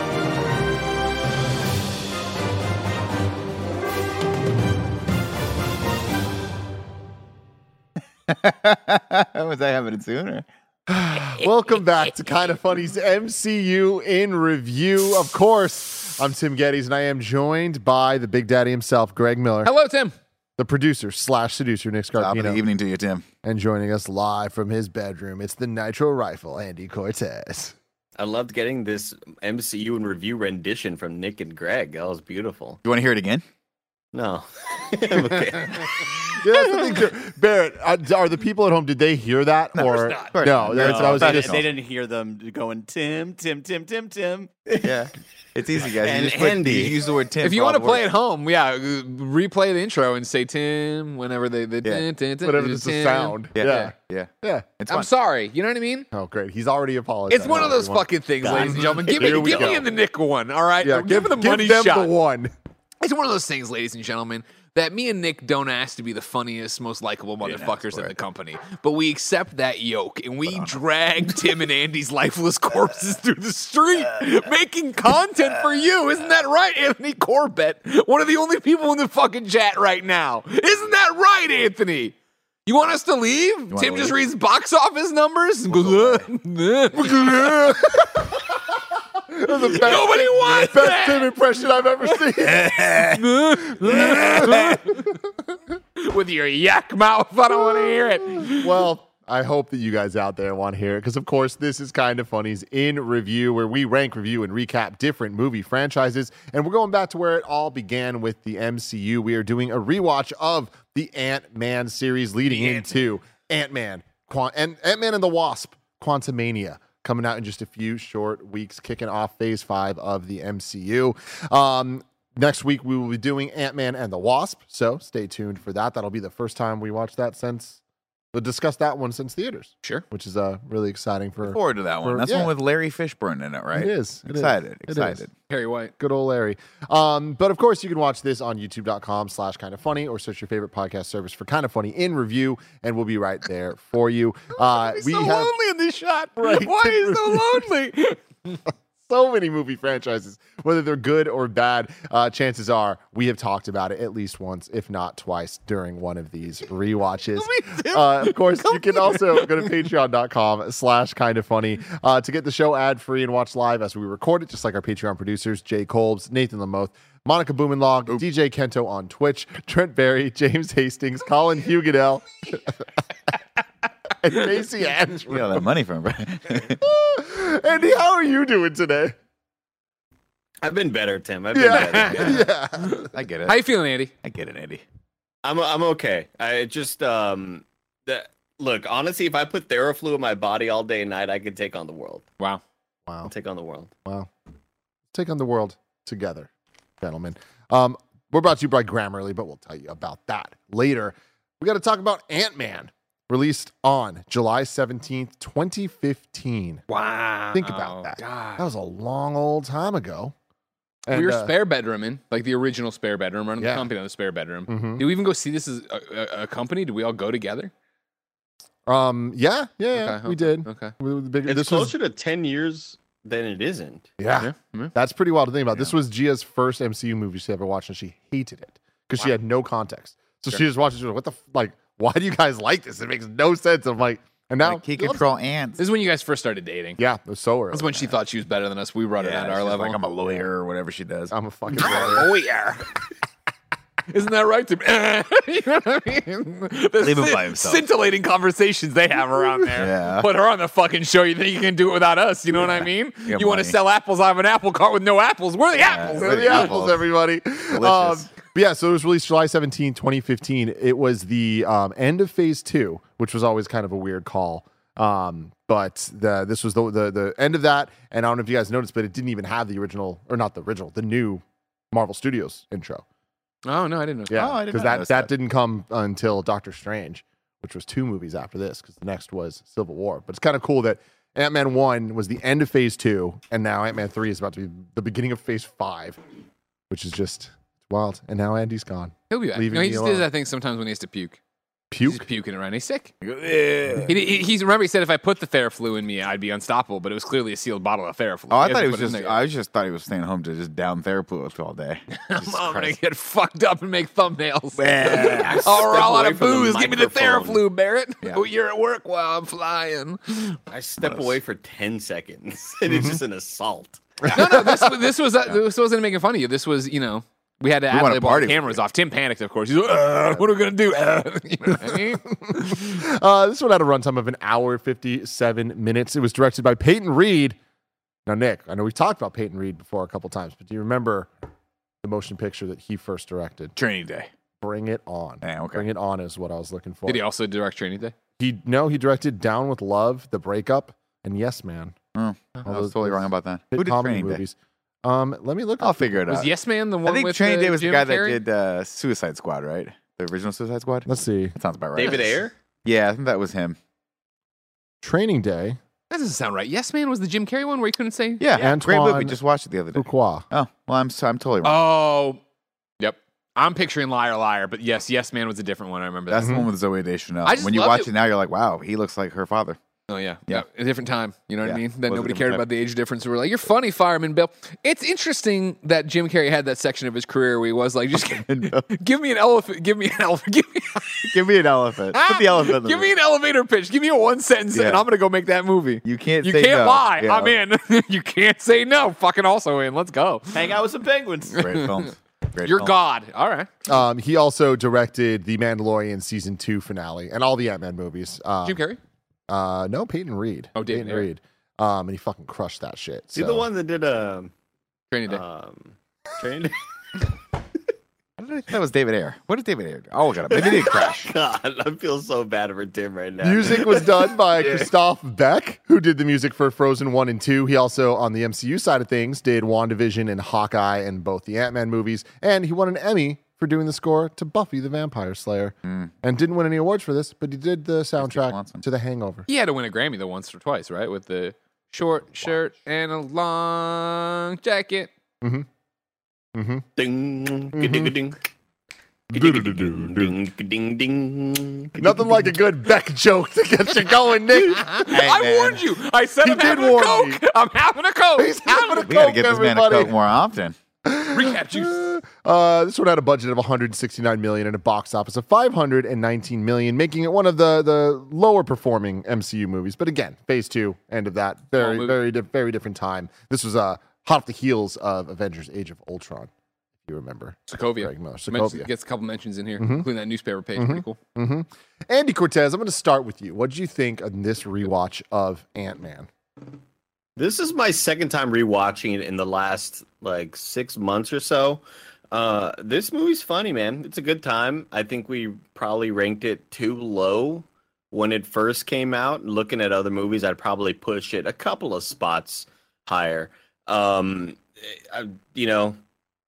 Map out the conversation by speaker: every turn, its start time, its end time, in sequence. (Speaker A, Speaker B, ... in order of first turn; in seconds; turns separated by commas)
Speaker A: 8.3-10.5, Speaker B: 10.9-19.7, Speaker C: 19.6-20.1, Speaker B: 20.6-22.6, Speaker A: 22.2-23.2, Speaker B: 23.4-27.7, Speaker D: 28.2-32.8, Speaker A: 32.8-33.4, Speaker D: 34.1-36.7, Speaker B: 36.2-41.7, Speaker A: 39.8-41.7, Speaker D: 40.8-41.1, Speaker E: 41.0-44.6, Speaker A: 44.8-48.1, Speaker D: 45.9-47.0, Speaker C: 47.4-53.9, Speaker A: 51.8-52.1, Speaker B: 52.4-54.7, Speaker A: 53.5-55.1, Speaker C: 54.9-56.1, Speaker B: 56.1-59.9, Speaker C: 57.3-62.1, Speaker D: 58.4-59.8, Speaker B: 60.8-62.5, Speaker C: 63.0-82.2, Speaker A: 67.7-68.1, Speaker A: 70.5-70.8, Speaker C: 82.7-87.2, Speaker A: 83.7-84.2, Speaker A: 85.7-86.3, Speaker B: 87.0-88.3, Speaker B: 89.3-93.0, Speaker C: 89.6-91.3, Speaker A: 92.4-93.2, Speaker C: 93.1-95.1, Speaker B: 93.8-95.1, Speaker A: 93.9-94.8, Speaker C: 96.0-98.9, Speaker B: 98.5-127.8, Speaker B: 128.3-132.5, Speaker A: 131.4-135.3, Speaker B: 133.7-135.2, Speaker C: 135.5-135.9, Speaker B: 136.0-145.5, Speaker C: 144.6-148.6, Speaker B: 146.4-147.7, Speaker B: 149.1-172.7, Speaker C: 157.4-159.6, Speaker B: 174.2-175.7, Speaker A: 175.3-176.8, Speaker B: 176.8-179.2, Speaker D: 180.6-182.5, Speaker B: 181.5-183.1, Speaker C: 181.7-184.1, Speaker A: 183.1-183.6, Speaker A: 184.2-184.8, Speaker D: 185.4-192.3, Speaker D: 193.3-193.9, Speaker B: 195.1-196.5, Speaker B: 197.0-206.8, Speaker C: 206.9-208.6, Speaker B: 207.5-210.3, Speaker B: 211.1-211.5, Speaker C: 211.1-217.7, Speaker B: 213.6-213.9, Speaker B: 214.7-215.1, Speaker B: 218.9-222.0, Speaker C: 219.9-220.9, Speaker D: 221.5-224.1, Speaker B: 224.2-235.2, Speaker C: 224.4-224.9, Speaker A: 234.6-235.9, Speaker C: 235.8-237.0, Speaker B: 237.0-238.1, Speaker C: 237.7-240.0, Speaker A: 239.2-241.3, Speaker B: 241.3-242.3, Speaker C: 241.7-242.8, Speaker C: 244.1-256.8, Speaker A: 247.0-247.8, Speaker A: 249.8-250.3, Speaker A: 252.6-253.8, Speaker A: 255.7-257.1, Speaker B: 256.2-273.0, Speaker A: 257.7-258.3, Speaker C: 273.6-274.4, Speaker B: 274.3-286.2, Speaker A: 274.3-275.3, Speaker B: 286.9-290.3, Speaker C: 289.3-291.4, Speaker B: 291.9-292.2, Speaker C: 292.1-293.1, Speaker A: 293.2-294.2, Speaker C: 294.1-299.4, Speaker A: 298.5-303.0, Speaker C: 302.2-310.6, Speaker A: 304.8-305.8, Speaker D: 305.7-307.6, Speaker D: 310.7-314.0, Speaker A: 311.0-311.3, Speaker B: 312.9-313.2, Speaker B: 314.3-314.9, Speaker C: 314.3-322.9, Speaker A: 317.9-318.8, Speaker B: 321.8-327.6, Speaker B: 328.3-331.3, Speaker B: 332.0-333.7, Speaker A: 333.8-334.3, Speaker B: 334.6-337.2, Speaker A: 335.4-335.9, Speaker C: 337.1-338.1, Speaker B: 338.4-342.0, Speaker A: 342.1-344.4, Speaker B: 342.6-346.4, Speaker A: 345.8-346.5, Speaker C: 346.3-348.4, Speaker A: 347.1-353.8, Speaker B: 351.1-351.6, Speaker D: 351.9-352.5, Speaker B: 355.0-355.8, Speaker C: 356.1-358.4, Speaker A: 358.4-361.8, Speaker B: 358.5-359.4, Speaker B: 359.9-360.5, Speaker C: 361.6-362.4, Speaker C: 363.0-366.5, Speaker A: 366.3-369.8, Speaker B: 366.4-366.7, Speaker C: 367.4-368.1, Speaker C: 370.1-381.3, Speaker A: 371.6-372.7, Speaker A: 378.5-378.9, Speaker A: 381.3-383.1, Speaker C: 382.1-390.7, Speaker A: 384.7-385.1, Speaker A: 386.0-387.6, Speaker E: 390.6-391.6, Speaker A: 391.6-392.9, Speaker C: 391.6-393.7, Speaker B: 393.9-398.8, Speaker C: 398.6-399.0, Speaker B: 399.5-403.7, Speaker C: 400.8-401.3, Speaker D: 403.4-404.5, Speaker C: 405.1-405.4, Speaker D: 405.3-406.8, Speaker A: 408.4-411.3, Speaker D: 410.5-414.3, Speaker B: 413.4-429.4, Speaker A: 425.8-426.1, Speaker A: 428.2-428.8, Speaker C: 429.5-435.1, Speaker B: 435.4-435.7, Speaker B: 436.6-436.9, Speaker D: 437.0-438.4, Speaker B: 437.7-438.1, Speaker B: 439.3-440.3, Speaker D: 439.3-442.4, Speaker B: 442.0-445.2, Speaker C: 444.7-449.0, Speaker A: 445.1-445.8, Speaker B: 446.4-447.4, Speaker B: 448.4-450.1, Speaker A: 448.9-450.8, Speaker B: 451.1-466.5, Speaker C: 451.3-452.0, Speaker C: 461.8-462.2, Speaker B: 467.0-468.9, Speaker C: 467.7-471.2, Speaker B: 469.8-470.1, Speaker B: 470.8-476.3, Speaker D: 477.4-496.0